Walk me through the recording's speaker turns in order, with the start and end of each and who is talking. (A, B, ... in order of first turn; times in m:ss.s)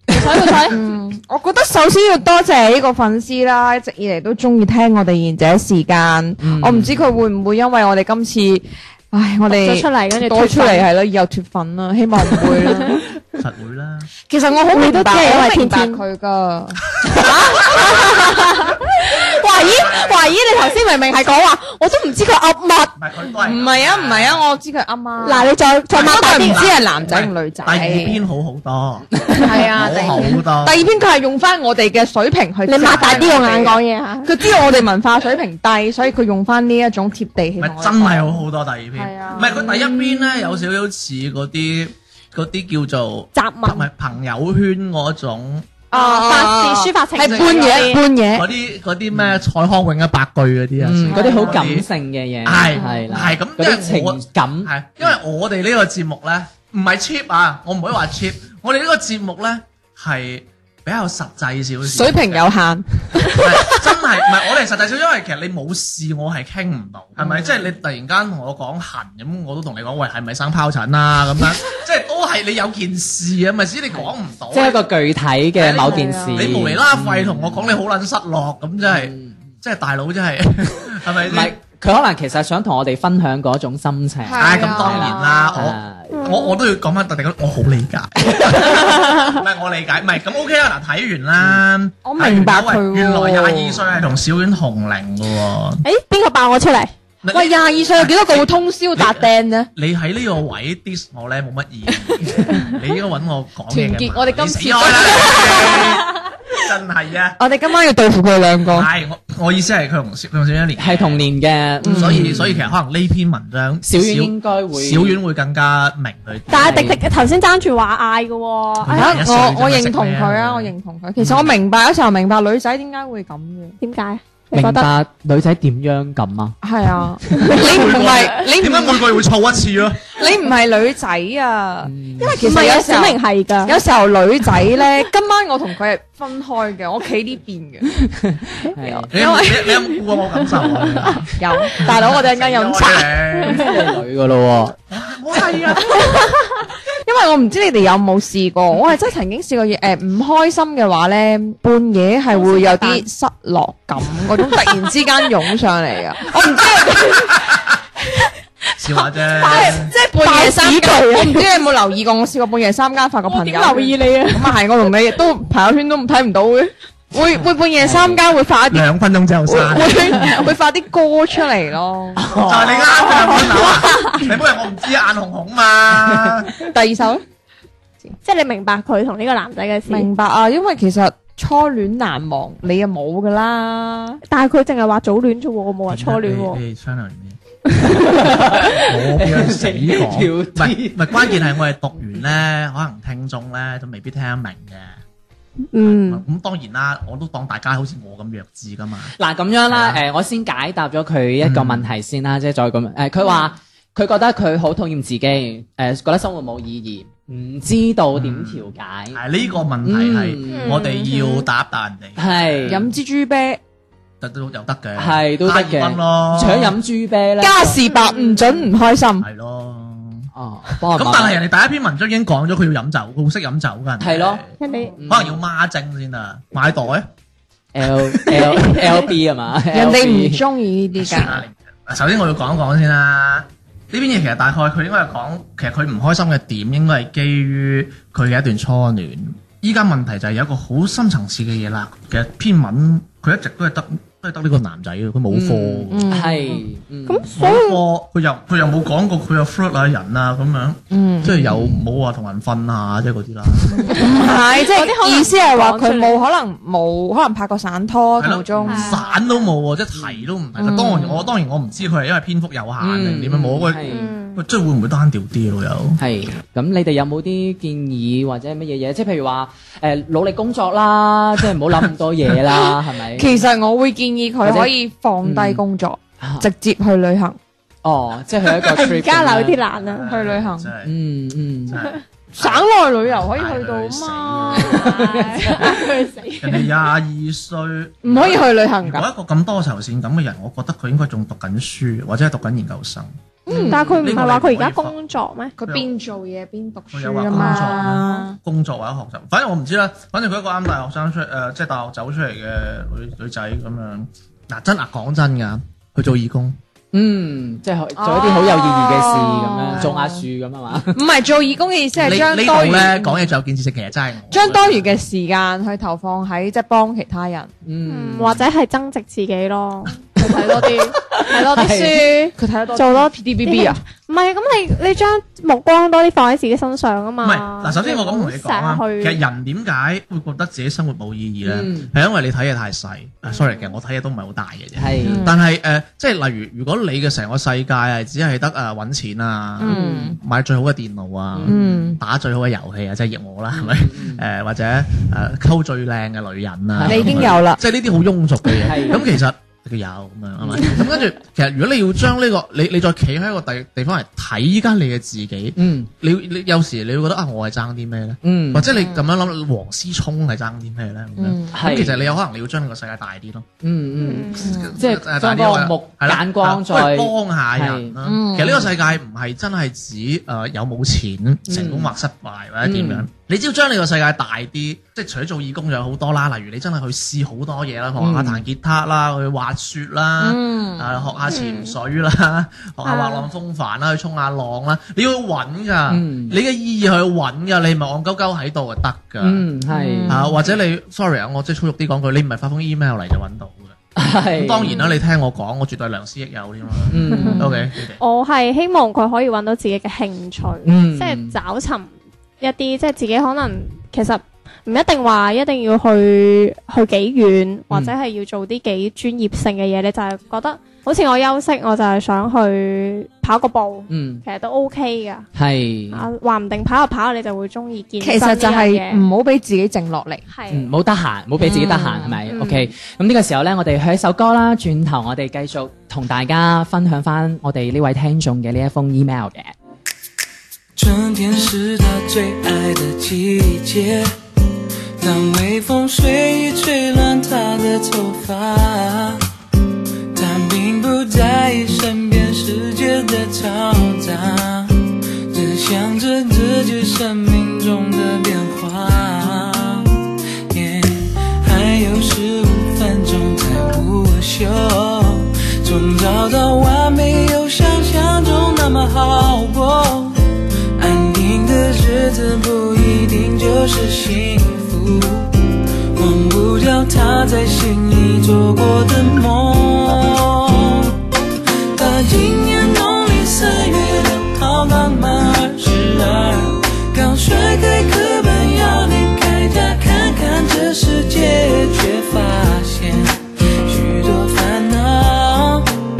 0:00.1-0:00.8 A
0:00.4-0:13.0 B
0:06.4-0:07.0 C
0:09.5-0:10.9 A
0:12.3-0:13.0 A
0:13.4-0:14.1 D
0:14.3-0:17.0 B
0:14.7-0:16.0 A
0:17.0-0:18.1 D
0:17.1-0:22.9 A
0:19.1-0:20.3 D
0:23.0-0:24.4 D
0:23.4-0:28.2 B
0:25.2-0:26.7 A
0:25.9-0:30.8 D
0:29.3-0:38.4 B
0:32.6-0:34.3 A
0:32.8-0:33.4 D
0:37.6-0:45.7 D
0:38.9-0:40.6 B
0:43.4-0:43.8 A
0:45.9-0:48.0 A
0:45.9-0:48.5 B
0:47.2-0:51.8 D
0:49.1-0:49.4 C
0:50.8-0:54.7 C
0:51.1-0:51.7 B
0:52.4-1:02.5 D
1:01.8-1:03.9 B
1:03.3-1:14.8 D
1:13.9-1:17.8 C
1:15.6-1:21.6 D
1:15.8-1:16.6 B
1:18.8-1:19.4 C
1:21.2-1:26.2 C
1:24.2-1:25.5 B
1:24.4-1:35.8 D
1:26.1-1:26.5 A
1:29.0-1:29.3 A
1:32.0-1:33.8 B
1:35.8-1:36.9 A
1:37.2-1:47.4 D
1:37.3-1:39.7 B
1:43.7-1:46.0 B
1:47.4-1:48.9 B
1:48.7-1:51.3 D
1:50.8-1:52.7 C
1:51.8-1:52.4 B
1:51.8-1:56.8 D
1:53.8-1:55.2 C
1:56.5-1:59.2 A
1:56.5-1:57.0 C
1:58.8-2:00.7 D
1:58.9-2:03.8 B
2:01.2-2:01.5 C
2:03.8-2:04.9 A
2:04.5-2:06.6 C
2:06.6-2:09.2 B
2:07.4-2:10.2 D
2:10.1-2:17.9 B
2:11.8-2:12.5 C
2:12.2-2:13.8 A
2:18.1-2:19.1 C
2:18.8-2:19.9 B
2:19.1-2:23.7 D
2:21.3-2:23.4 B
2:23.4-2:24.8 C
2:24.9-2:26.2 D
2:25.9-2:26.3 B
2:26.9-2:37.7 B
2:32.3-2:33.0 A
2:34.3-2:34.8 A
2:37.1-2:37.7 D
2:38.8-2:39.9 D
2:39.3-2:48.9 B
2:39.5-2:41.5 A
2:43.2-2:44.6 A
2:47.4-2:48.2 C
2:48.7-2:50.5 D
2:49.4-2:52.4 B
2:52.2-2:52.9 C
2:52.4-2:56.6 D
2:53.8-2:54.2 A
2:56.6-2:57.2 B
2:58.2-3:00.1 A
2:59.9-3:04.2 B
3:04.3-3:06.6 A
3:05.9-3:07.4 D
3:07.8-3:11.4 C
3:08.1-3:15.0 D
3:15.7-3:16.2 A
3:15.8-3:19.1 D
3:19.2-3:29.2 C
3:19.7-3:20.0 D
3:21.4-3:21.9 D
3:28.1-3:32.9 D
3:29.8-3:30.9 C
3:30.5-3:31.5 A
3:32.2-3:32.9 C
3:32.7-3:33.6 B
3:34.2-3:36.8 D
3:35.0-3:37.8 C
3:37.4-3:39.3 B
3:37.8-3:38.6 A
3:39.2-3:40.3 D
3:40.3-3:41.4 C
3:40.8-3:44.6 D
3:44.0-3:44.4 C
3:44.6-3:44.9 A
3:45.0-3:45.4 C
3:45.1-3:47.1 D
3:47.7-3:50.4 C
3:49.7-3:51.4 B
3:51.0-4:06.1 D
4:05.3-4:07.3 C
4:05.9-4:06.6 B
4:07.1-4:07.8 A
4:07.3-4:14.1 D
4:10.9-4:11.6 B
4:13.7-4:19.0 B
4:14.0-4:16.2 A
4:18.2-4:26.0 D
4:18.7-4:19.1 A
4:20.6-4:21.2 B
4:22.8-4:24.1 C
4:23.8-4:24.4 A
4:26.0-4:33.4 C
4:33.1-4:37.4 B
4:34.4-4:34.7 C
4:35.2-4:35.6 C
4:36.2-4:36.5 C
4:37.8-4:39.6 C
4:38.7-4:40.1 A
4:39.7-4:40.9 D
4:40.1-4:40.7 B
4:40.8-4:41.8 C
4:41.7-4:45.0 D
4:42.4-4:45.9 B
4:44.5-4:46.7 A
4:44.8-4:45.5 C
4:46.4-4:54.9 D
4:48.0-4:49.1 B
4:53.5-4:54.1 B
4:53.5-4:55.5 A
4:55.6-4:58.4 B
4:55.6-4:55.9 D
4:56.9-5:06.6 D
5:06.9-5:11.0 C
5:08.0-5:10.3 B
5:10.9-5:13.3 B
5:12.0-5:15.0 D
5:14.3-5:17.5 B
5:17.6-5:18.5 C
5:17.9-5:29.2 A
5:20.2-5:22.1 C
5:22.3-5:23.8 B
5:27.2-6:03.5 D
5:31.4-5:31.9 C
5:34.8-5:35.2 C
5:35.0-5:35.4 B
5:39.6-5:40.2 B
5:39.6-5:40.2 C
5:41.3-5:41.9 C
5:41.4-5:42.0 B
5:43.5-5:44.2 C
5:46.7-5:47.4 C
5:46.8-5:47.6 B
5:48.6-5:49.1 C
5:50.4-5:50.7 C
5:55.6-5:55.9 C
5:58.2-5:58.7 C
5:58.8-5:59.0 B
6:01.2-6:01.5 B
6:01.5-6:02.1 C
6:03.6-6:08.0 C
6:04.0-6:04.6 A
6:04.4-6:29.4 D
6:04.4-6:04.8 B
6:08.0-6:08.7 B
6:11.5-6:11.9 C
6:12.6-6:13.1 C
6:18.0-6:18.4 C
6:20.2-6:21.0 B
6:21.3-6:21.7 A
6:22.8-6:23.3 A
6:25.9-6:26.4 C
6:29.2-6:30.3 C
6:29.7-6:30.3 B
6:30.1-6:33.8 D
6:34.0-6:34.7 C
6:34.3-6:38.0 D
6:34.7-6:35.0 A
6:36.9-6:37.5 C
6:37.1-6:37.4 A
6:37.2-6:37.5 B
6:38.0-6:55.3 A
6:40.6-6:41.4 C
6:53.9-6:54.2 C
6:55.3-6:56.0 C
6:55.9-6:59.0 A
6:58.0-7:00.2 B
7:00.3-7:00.7 A
7:00.5-7:09.5 C
7:01.4-7:02.2 B
7:02.3-7:02.7 A
7:10.8-7:14.2 E
7:15.0-7:19.2 E
7:20.1-7:51.0 E
7:51.7-8:05.8 E